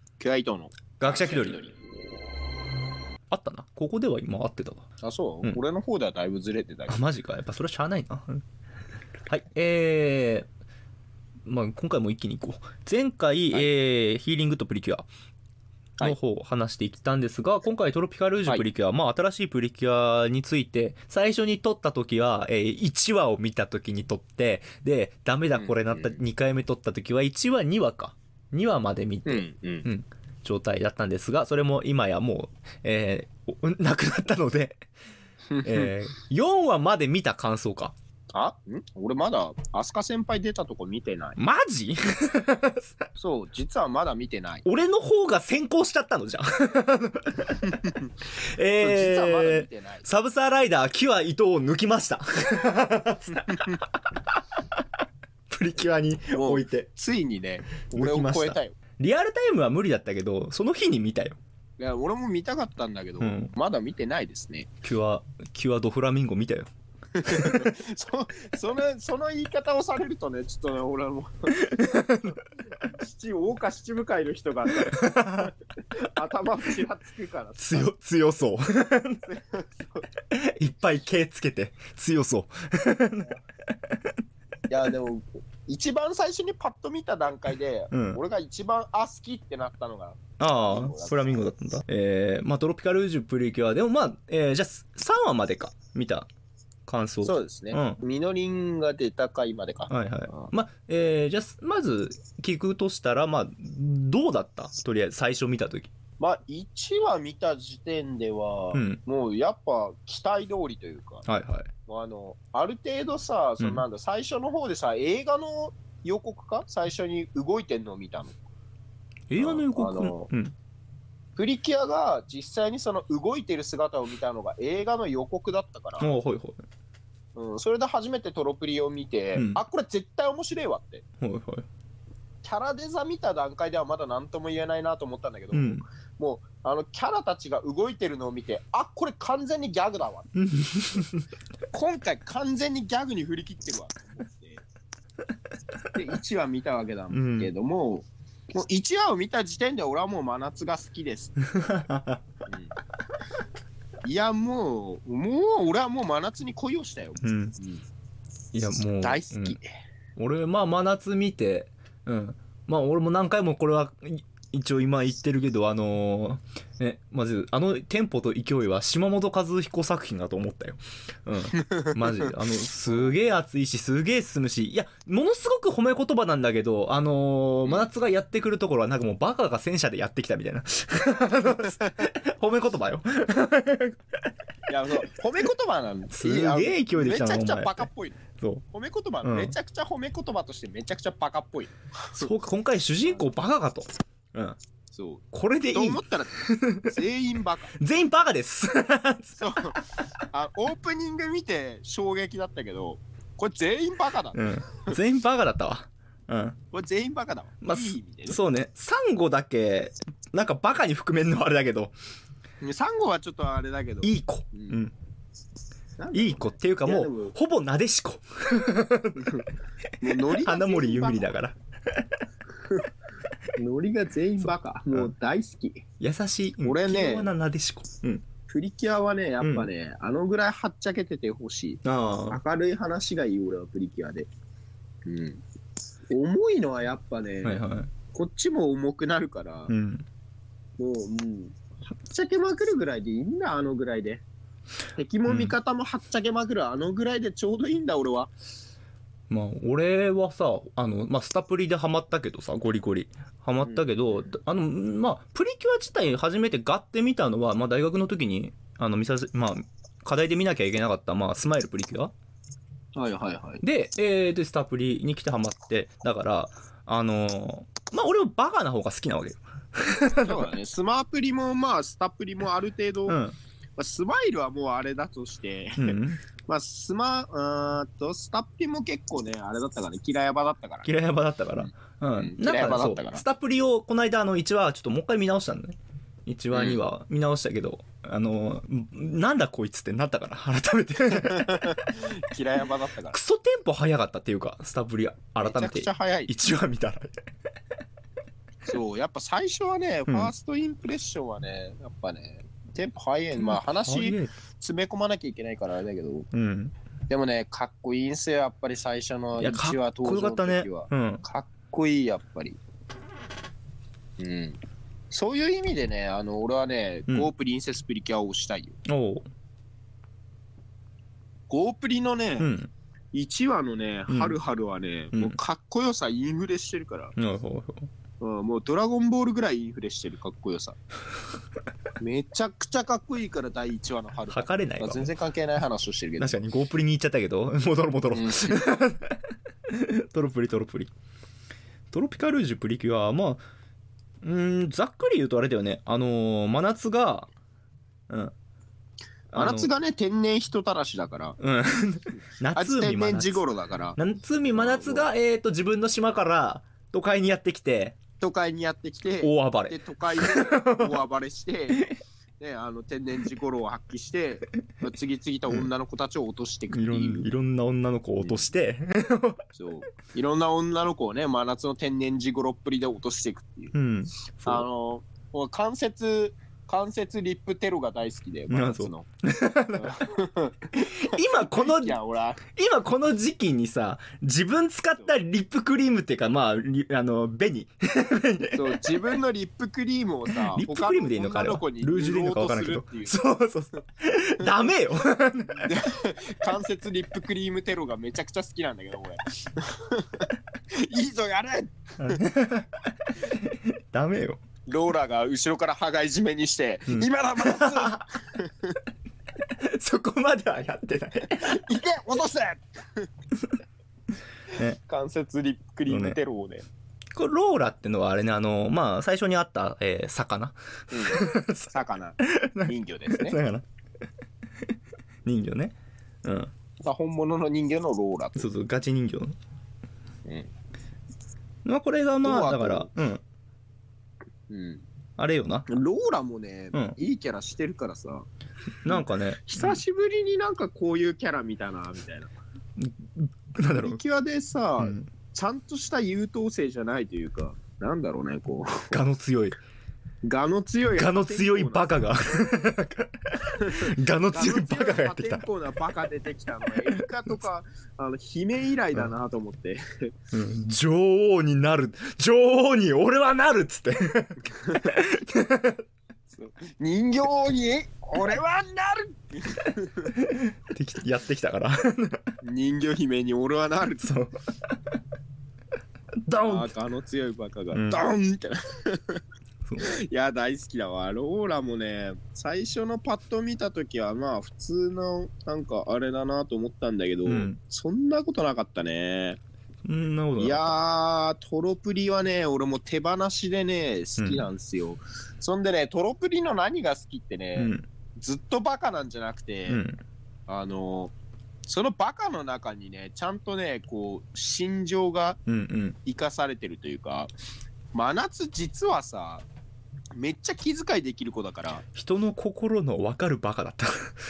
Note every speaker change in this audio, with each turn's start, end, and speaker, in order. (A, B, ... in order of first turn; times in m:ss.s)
0:00.2-0:01.7 A
0:01.0-0:01.6 B
0:03.3-0:04.9 B
0:05.0-0:07.0 A
0:06.9-0:08.4 B
0:09.3-0:10.5 B
0:11.5-0:15.1 B
0:16.0-0:34.8 B
0:25.6-0:26.2 A
0:29.2-0:29.9 A
0:35.5-0:35.9 A
0:35.6-0:38.0 B
0:38.3-0:41.4 A
0:41.4-0:42.9 B
0:43.2-0:44.6 A
0:44.6-0:47.6 B
0:47.6-0:48.1 A
0:48.4-0:53.7 B
0:48.8-0:50.0 A
0:53.5-0:53.8 A
0:55.5-0:56.9 B
0:56.3-0:58.8 A
0:57.9-1:01.4 B
1:01.8-1:04.7 A
1:03.2-1:03.5 B
1:04.8-1:06.7 B
1:07.2-1:11.7 A
1:07.2-1:07.7 B
1:11.6-1:12.4 B
1:12.8-1:17.9 A
1:14.8-1:15.5 B
1:17.6-1:19.2 B
1:19.3-1:20.0 A
1:20.3-1:23.4 B
1:24.7-1:31.5 A
1:27.9-1:28.2 B
1:30.4-1:36.3 B
1:36.9-1:38.0 B
1:37.2-1:40.5 A
1:39.9-1:45.9 B
1:46.2-1:51.2 A
1:48.7-1:49.0 B
1:51.2-1:51.7 B
1:51.9-1:58.4 A
1:59.3-2:00.5 B
1:59.4-2:00.3 A
2:01.4-2:06.1 A
2:06.0-2:06.6 B
2:07.3-2:11.0 A
2:09.3-2:09.6 B
2:11.2-2:11.7 B
2:12.4-2:20.3 A
2:15.5-2:15.8 B
2:20.4-2:21.3 B
2:21.7-2:24.6 A
2:25.9-2:31.3 A
2:27.1-2:27.5 B
2:31.5-2:32.2 B
2:32.5-2:32.8 A
2:34.0-2:37.8 A
2:37.2-2:37.6 B
2:38.5-2:39.6 B
2:39.0-2:39.6 A
2:40.2-3:04.0 B
2:51.6-2:52.3 A
2:52.9-2:53.2 A
3:04.7-3:12.3 A
3:06.1-3:08.6 B
3:09.2-3:09.6 B
3:12.1-3:14.6 B
3:14.9-3:17.8 A
3:15.3-3:16.9 B
3:17.8-3:19.7 B
3:19.4-3:25.0 A
3:24.3-3:26.6 B
3:26.7-3:28.4 A
3:27.6-3:31.9 B
3:32.6-3:34.8 A
3:34.0-3:34.9 B
3:36.0-3:37.3 A
3:36.1-3:39.4 B
3:39.2-3:39.5 A
3:40.0-3:41.3 A
3:40.0-3:42.1 B
3:42.5-3:42.9 A
3:43.6-3:45.9 A
3:46.0-3:48.2 B
3:46.6-3:47.3 A
3:48.5-3:54.3 A
3:49.4-3:49.7 B
3:51.8-3:52.4 B
3:55.0-3:55.4 A
3:56.1-3:59.7 A
3:57.4-3:57.9 B
3:59.7-4:00.1 B
4:00.8-4:04.2 A
4:05.0-4:08.3 A
4:05.3-4:05.6 B
4:09.3-4:22.1 B
4:13.7-4:14.3 A
4:22.9-4:23.6 A
4:23.6-4:30.4 B
4:30.2-4:33.2 A
4:33.1-4:33.4 B
4:33.8-4:40.9 A
4:35.8-4:36.2 B
4:40.8-4:51.9 B
4:42.2-4:43.2 A
4:46.5-4:46.8 A
4:51.2-4:53.2 A
4:53.1-4:57.1 B
4:55.4-4:56.3 A
4:58.7-5:06.3 A
5:03.4-5:04.3 B
5:06.3-5:06.7 B
5:07.1-5:12.6 A
5:09.4-5:11.2 B
5:14.2-5:18.8 A
5:18.9-5:19.3 B
5:21.5-5:22.5 A
5:22.4-5:22.7 B
5:23.1-5:27.2 A
5:24.1-5:24.4 B
5:25.1-5:25.4 B
5:27.2-5:27.9 B
5:28.2-5:30.8 A
5:32.0-5:36.4 A
5:34.3-5:35.1 B
5:36.2-5:40.9 B
5:38.1-5:38.6 A
5:41.9-5:43.4 B
5:44.2-5:47.3 B
5:48.1-5:48.3 B
5:49.3-5:49.7 B
5:49.3-5:51.4 A
5:51.4-5:53.4 B
5:52.5-5:55.1 A
5:54.0-5:58.0 B
5:58.2-6:07.3 A
5:59.2-6:00.9 B
6:06.7-6:09.4 B
6:08.2-6:08.5 A
6:09.6-6:13.7 A
6:13.7-6:14.7 B
6:14.4-6:19.1 A
6:18.5-6:20.1 B
6:19.8-6:22.4 A
6:20.8-6:28.8 B
6:28.6-6:33.2 A
6:30.3-6:35.8 B
6:35.5-6:42.2 A
6:42.0-6:44.4 B
6:44.7-6:48.8 A
6:46.9-6:48.0 B
6:49.6-6:51.6 B
6:51.3-6:53.1 A
6:54.6-6:56.7 A
6:55.9-6:56.2 B
6:57.1-7:03.7 B
7:00.9-7:03.4 A
7:05.2-7:06.5 B
7:06.8-7:08.5 A
7:08.4-7:09.4 B
7:10.2-7:10.5 A
7:11.6-7:13.2 B
7:12.2-7:12.9 A
7:14.5-7:14.8 A
7:15.2-7:15.7 B
7:15.7-7:18.3 A
7:18.8-7:19.8 B
7:18.9-7:22.3 A
7:22.8-7:24.0 B
7:23.8-7:28.9 A
7:24.8-7:25.1 B
7:28.9-7:29.6 B
7:30.2-7:32.1 A
7:30.9-7:35.4 B
7:33.5-7:40.1 A
7:40.3-7:45.8 B
7:44.5-7:45.0 A
7:46.3-7:50.1 A
7:50.2-7:52.2 B
7:52.4-7:54.1 A
7:54.0-7:54.3 B
7:56.3-7:56.7 B
7:56.4-7:59.2 A
7:57.7-7:58.0 B
7:59.6-7:59.9 B
7:59.8-8:09.4 A
8:07.3-8:07.6 B
8:09.8-8:10.8 B
8:10.4-8:19.8 A
8:14.2-8:14.4 B
8:17.6-8:17.9 B
8:19.7-8:20.0 B
8:20.5-8:21.1 A
8:21.6-8:25.4 A
8:25.5-8:26.0 B
8:26.0-8:27.3 A
8:27.9-8:29.4 A
8:30.1-8:31.8 A
8:31.9-8:34.2 B